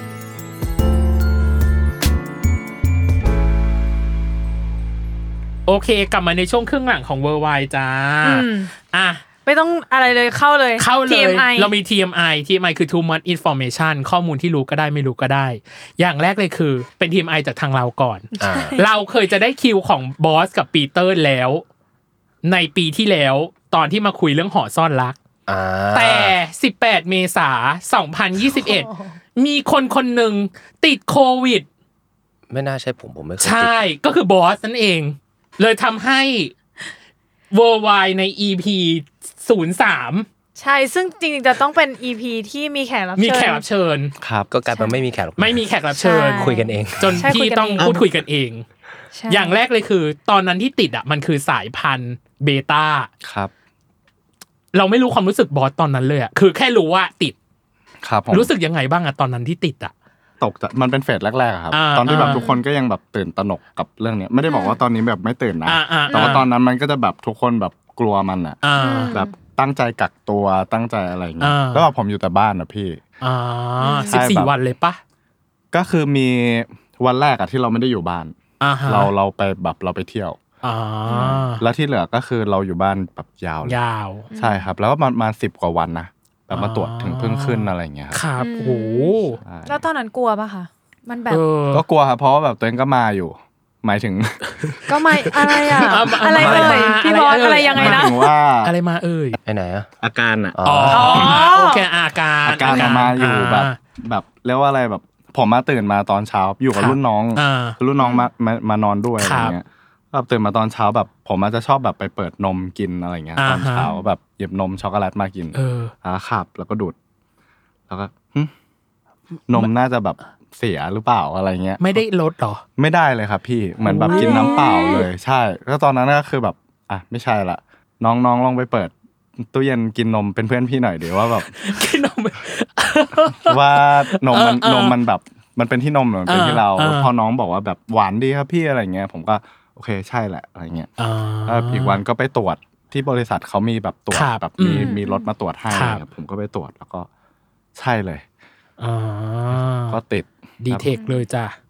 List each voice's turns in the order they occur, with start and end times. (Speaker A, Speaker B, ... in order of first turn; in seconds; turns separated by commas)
Speaker A: 5.7-9.2, Speaker B: 8.2-8.7, Speaker B: 9.4-11.7, Speaker A: 10.8-21.6, Speaker B: 18.4-18.9, Speaker C: 18.4-18.8, Speaker A: 22.4-25.2, Speaker C: 25.5-26.3, Speaker A: 25.9-31.6, Speaker B: 28.5-29.1, Speaker C: 32.5-33.8, Speaker A: 33.4-36.5, Speaker A: 37.5-40.2, Speaker B: 40.6-43.6, Speaker A: 43.2-44.1, Speaker D: 44.2-44.5, Speaker C: 44.5-45.6, Speaker B: 44.7-45.0, Speaker A: 45.4-48.6, Speaker B: 45.9-47.9, Speaker C: 46.3-47.3, Speaker B: 49.1-49.6, Speaker A: 49.3-53.1, Speaker D: 53.2-53.5, Speaker A: 54.7-57.3, Speaker D: 58.0-58.5, Speaker A: 58.3-59.9, Speaker D: 60.4-68.6, Speaker A: 61.7-62.5, Speaker B: 62.1-62.6, Speaker B: 64.4-64.8, Speaker A: 65.7-66.5, Speaker B: 66.1-66.4, Speaker A: 68.6-69.2, Speaker B: 68.8-69.3, Speaker D: 69.1-73.0, Speaker A: 71.4-71.9, Speaker A: 73.2-75.0, Speaker B: 73.8-74.3, Speaker D: 74.0-74.5, Speaker D: 75.7-78.3, Speaker A: 78.6-79.1, Speaker D: 78.8-80.4, Speaker A: 80.6-81.6, Speaker B: 81.1-81.4, Speaker D: 81.1-83.8, Speaker A: 83.6-84.3, Speaker B: 84.3-84.7, Speaker D: 84.3-88.2, Speaker A: 86.5-89.4, Speaker B: 88.4-91.4, Speaker D: 89.4-89.8, Speaker A: 91.3-91.8, Speaker D: 91.7-94.7, Speaker B: 94.9-98.2, Speaker D: 95.3-97.0, Speaker A: 95.8-99.4, Speaker D: 97.7-98.7, Speaker C: 99.5-99.9, Speaker D: 100.0-101.4, Speaker C: 100.5-101.3, Speaker A: 100.6-103.8, Speaker B: 100.9-101.8, Speaker D: 102.4-116.9, Speaker A: 106.7-107.8, Speaker B: 108.0-108.2, Speaker A: 109.2-109.5, Speaker A: 113.4-113.9, Speaker A: 115.5-115.9, Speaker D: 117.9-118.5, Speaker D: 119.5-122.0, Speaker A: 121.8-122.6, Speaker D: 122.8-131.5, Speaker A: 123.9-125.0, Speaker B: 124.1-125.1, Speaker A: 131.5-135.0, Speaker D: 133.4-140.9, Speaker A: 136.3-137.1, Speaker A: 141.0-142.0, Speaker D: 141.4-147.1, Speaker A: 144.1-144.9, Speaker B: 144.8-145.3, Speaker A: 145.7-146.0, Speaker D: 147.8-148.2, Speaker A: 148.8-150.0, Speaker D: 149.9-150.9, Speaker A: 150.6-151.6, Speaker B: 150.9-151.2